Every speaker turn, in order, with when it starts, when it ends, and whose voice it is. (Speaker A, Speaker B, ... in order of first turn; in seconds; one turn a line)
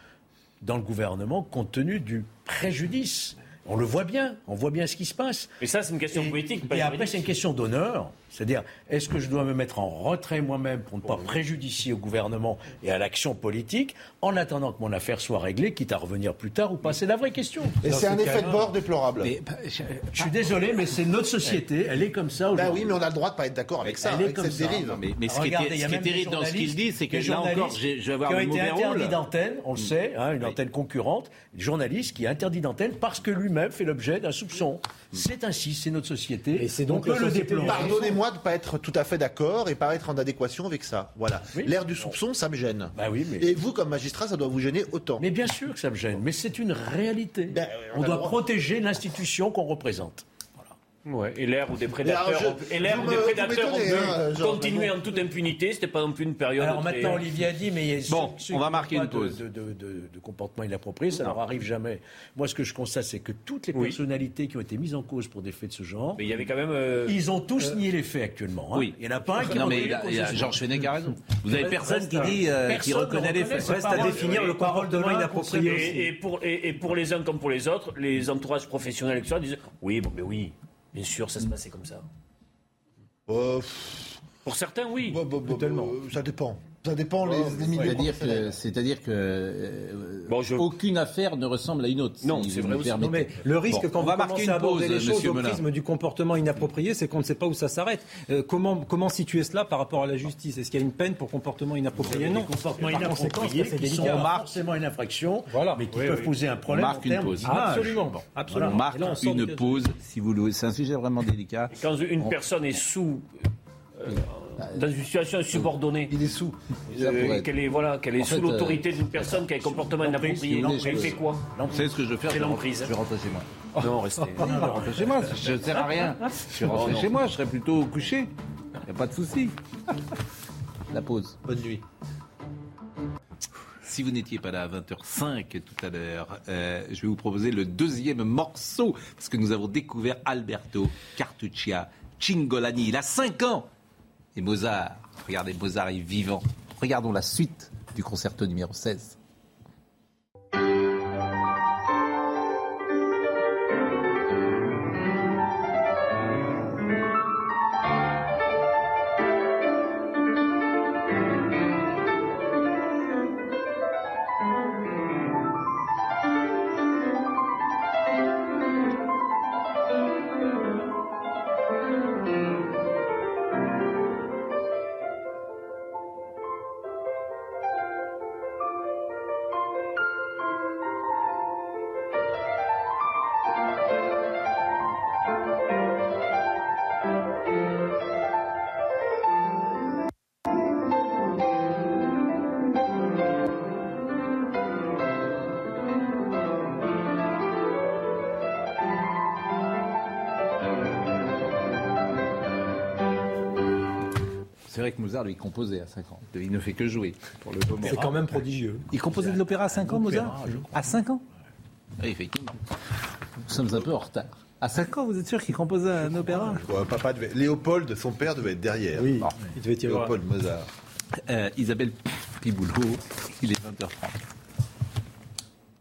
Speaker A: 0.6-5.5
Speaker B: 5.6-7.3
Speaker A: 6.1-18.7
Speaker C: 17.8-19.3
Speaker D: 19.2-20.4
Speaker A: 20.1-23.0
Speaker C: 22.5-25.0
Speaker A: 23.9-38.1
Speaker D: 24.8-29.2
Speaker D: 29.8-30.6
Speaker E: 36.6-38.1
Speaker C: 37.6-45.2
Speaker A: 42.9-43.6
Speaker A: 45.2-50.2
Speaker C: 47.5-48.4
Speaker B: 51.0-57.3
Speaker C: 52.0-55.2
Speaker A: 56.6-66.2
Speaker D: 58.1-59.4
Speaker B: 61.1-61.4
Speaker B: 63.7-64.0
Speaker B: 66.2-67.2
Speaker A: 67.0-70.8
Speaker D: 68.7-74.1
Speaker A: 71.5-75.9
Speaker E: 73.6-76.1
Speaker B: 74.1-74.6
Speaker B: 75.5-82.0
Speaker C: 83.3-84.2
Speaker B: 84.4-85.2
Speaker C: 85.0-88.6
Speaker D: 87.7-95.6
Speaker B: 90.3-90.7
Speaker B: 92.2-93.0
Speaker E: 93.0-104.3
Speaker A: 102.0-108.8
Speaker D: 104.0-104.6
Speaker E: 105.5-106.0
Speaker B: 106.0-106.3
Speaker D: 106.7-112.4
Speaker E: 107.4-109.8
Speaker B: 111.7-113.3
Speaker B: 114.0-116.2
Speaker D: 114.1-114.8
Speaker D: 115.5-116.3
Speaker D: 116.9-117.5
Speaker B: 116.9-121.5
Speaker D: 118.2-119.0
Speaker A: 119.2-121.8
Speaker D: 120.4-123.5
Speaker B: 122.2-122.9
Speaker B: 123.8-124.7
Speaker A: 124.4-125.2
Speaker D: 124.4-128.3
Speaker B: 126.7-127.1
Speaker D: 128.8-129.5
Speaker D: 130.9-131.5
Speaker D: 133.8-143.7
Speaker D: 144.3-149.2
Speaker D: 204.7-208.2
Speaker E: 207.8-208.9
Speaker D: 208.9-211.2
Speaker A: 209.0-210.9
Speaker D: 212.0-212.7
Speaker D: 213.4-216.6
Speaker C: 216.5-219.2
Speaker E: 219.0-220.1
Speaker C: 219.8-220.7
Speaker D: 221.2-224.2